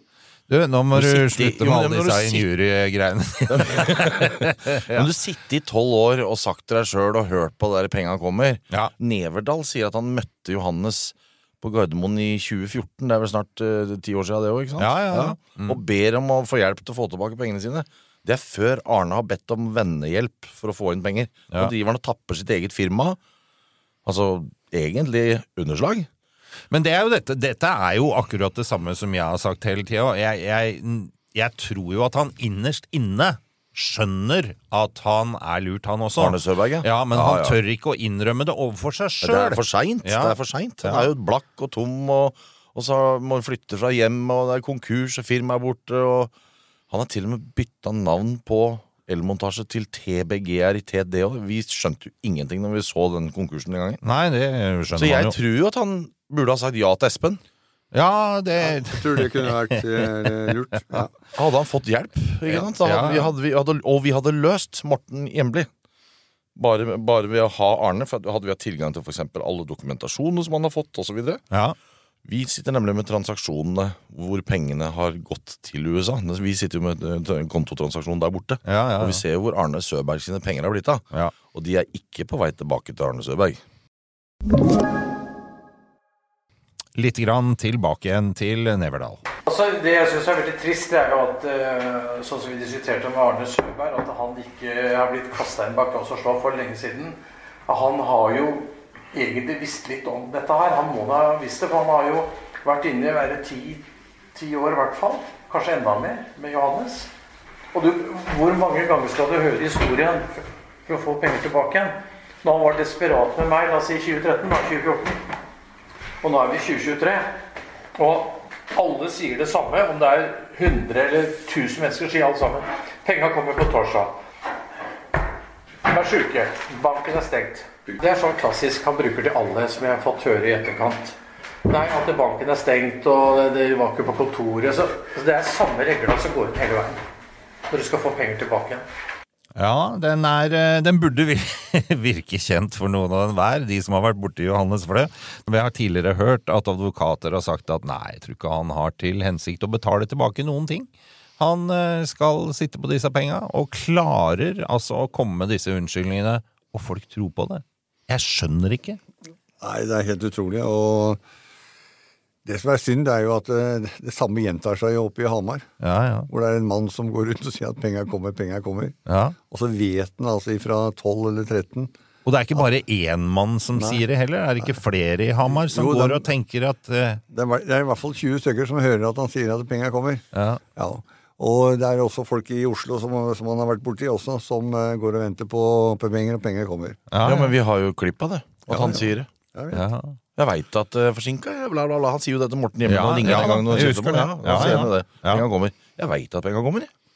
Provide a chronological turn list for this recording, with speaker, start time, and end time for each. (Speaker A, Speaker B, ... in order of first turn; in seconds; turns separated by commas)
Speaker A: 0.5-5.1, Speaker B: 0.9-2.5, Speaker B: 3.5-23.2, Speaker A: 14.8-15.8, Speaker B: 24.1-26.1, Speaker A: 26.7-41.1, Speaker B: 36.2-37.6, Speaker B: 39.2-46.3, Speaker B: 46.9-54.0, Speaker A: 54.0-55.4, Speaker B: 55.0-57.4, Speaker A: 57.9-61.0, Speaker C: 58.6-61.1, Speaker B: 61.3-65.7, Speaker A: 62.5-63.3, Speaker B: 66.5-71.4, Speaker B: 72.2-83.6, Speaker A: 78.7-79.2, Speaker A: 87.0-89.2, Speaker D: 89.5-107.1, Speaker D: 107.7-115.2, Speaker D: 116.2-117.3, Speaker D: 118.0-124.2, Speaker D: 125.8-137.0, Speaker D: 137.7-138.8, Speaker A: 139.6-150.9, Speaker A: 151.4-159.0, Speaker C: 159.6-161.2, Speaker C: 162.4-165.7, Speaker A: 165.8-166.3, Speaker C: 166.3-168.9, Speaker A: 169.1-169.4, Speaker C: 169.5-171.9, Speaker A: 172.2-177.2, Speaker C: 173.8-174.0, Speaker C: 175.5-176.3, Speaker C: 177.3-180.2, Speaker A: 180.3-180.6, Speaker C: 180.8-187.0, Speaker A: 187.1-187.5, Speaker B: 187.2-189.3, Speaker C: 188.7-189.8, Speaker A: 189.7-190.2, Speaker B: 190.4-196.9, Speaker A: 192.9-195.4